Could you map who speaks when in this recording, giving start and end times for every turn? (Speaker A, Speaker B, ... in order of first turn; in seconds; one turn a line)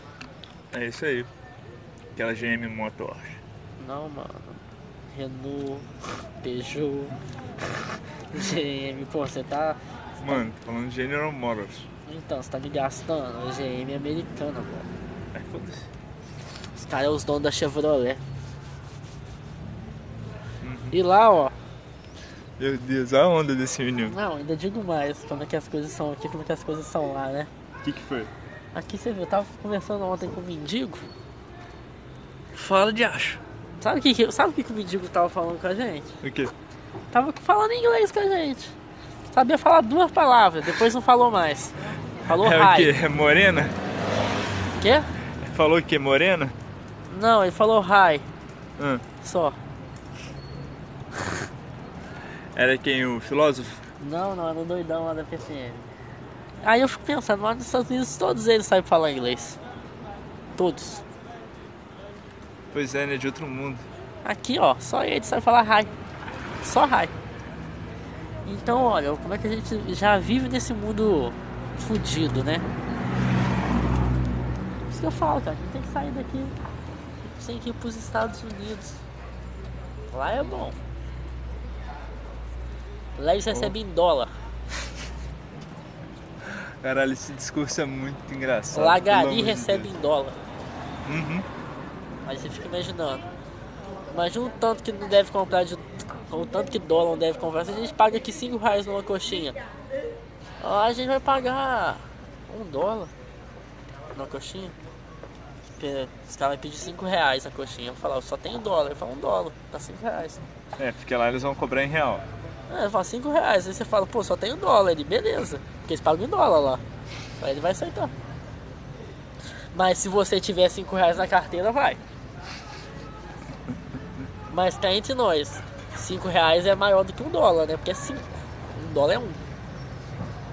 Speaker A: 0.7-1.3
Speaker A: 2.1-3.4
Speaker B: 3.8-4.6
Speaker B: 5.1-5.9
Speaker B: 6.4-7.2
Speaker B: 8.3-10.5
Speaker A: 10.2-11.9
Speaker B: 12.1-14.9
Speaker A: 15.3-15.9
Speaker B: 16.8-18.2
Speaker A: 20.6-21.0
Speaker B: 20.9-21.5
Speaker A: 22.6-24.2
Speaker B: 24.1-27.5
Speaker A: 27.8-28.3
Speaker B: 28.7-31.1
Speaker A: 32.5-33.4
Speaker B: 33.8-36.2
Speaker A: 36.2-36.5
Speaker B: 37.1-38.7
Speaker B: 39.3-42.9
Speaker A: 42.3-43.8
Speaker B: 44.8-45.1
Speaker A: 45.4-46.5
Speaker B: 47.1-48.3
Speaker A: 48.8-49.0
Speaker B: 49.2-49.6
Speaker A: 52.5-53.8
Speaker B: 54.0-55.9
Speaker B: 56.6-59.6
Speaker B: 60.6-61.0
Speaker A: 62.7-63.9
Speaker B: 64.2-65.9
Speaker B: 66.6-67.1
Speaker B: 68.5-72.7
Speaker B: 74.9-76.5
Speaker B: 77.2-79.0
Speaker B: 80.1-80.8
Speaker B: 83.2-84.3
Speaker A: 83.5-83.7
Speaker A: 86.8-89.9
Speaker B: 88.7-90.4
Speaker A: 91.0-91.5
Speaker B: 92.2-93.2
Speaker B: 94.1-99.6
Speaker B: 100.6-103.1
Speaker B: 104.1-104.8
Speaker B: 105.8-110.4
Speaker A: 110.8-112.3
Speaker B: 112.7-116.8
Speaker B: 117.4-118.1
Speaker B: 119.7-122.0
Speaker B: 124.5-129.4